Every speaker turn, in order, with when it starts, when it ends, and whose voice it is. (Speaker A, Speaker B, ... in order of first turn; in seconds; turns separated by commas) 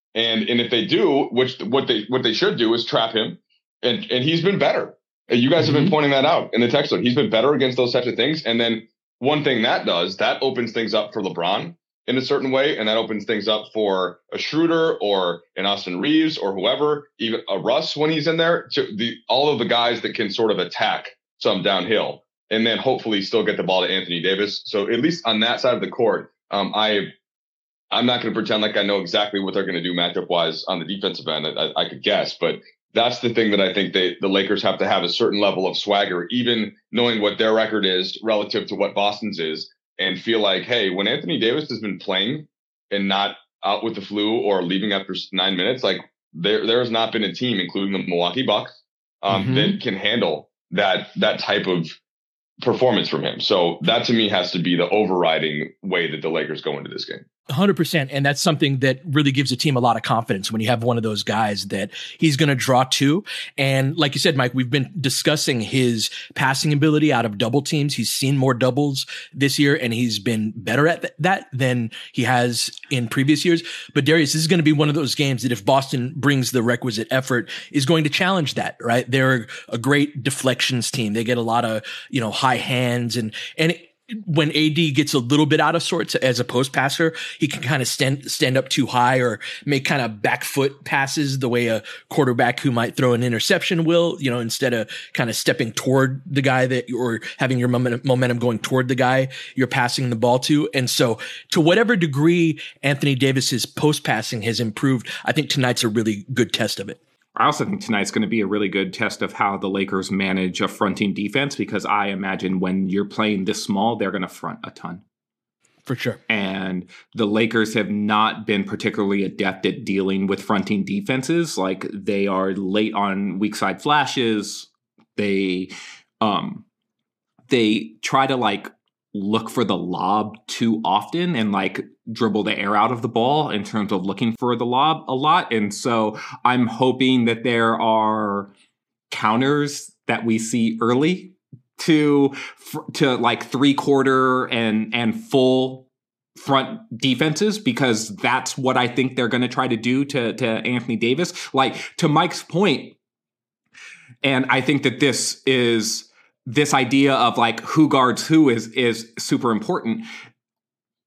Speaker A: 0.1-27.1, Speaker B: 5.6-5.9, Speaker A: 27.9-52.0, Speaker B: 49.3-49.8, Speaker A: 52.6-57.2, Speaker B: 57.5-107.0, Speaker C: 107.3-115.0, Speaker B: 115.8-116.2, Speaker C: 116.3-126.6, Speaker C: 127.5-138.5, Speaker C: 139.1-152.9, Speaker C: 154.2-160.1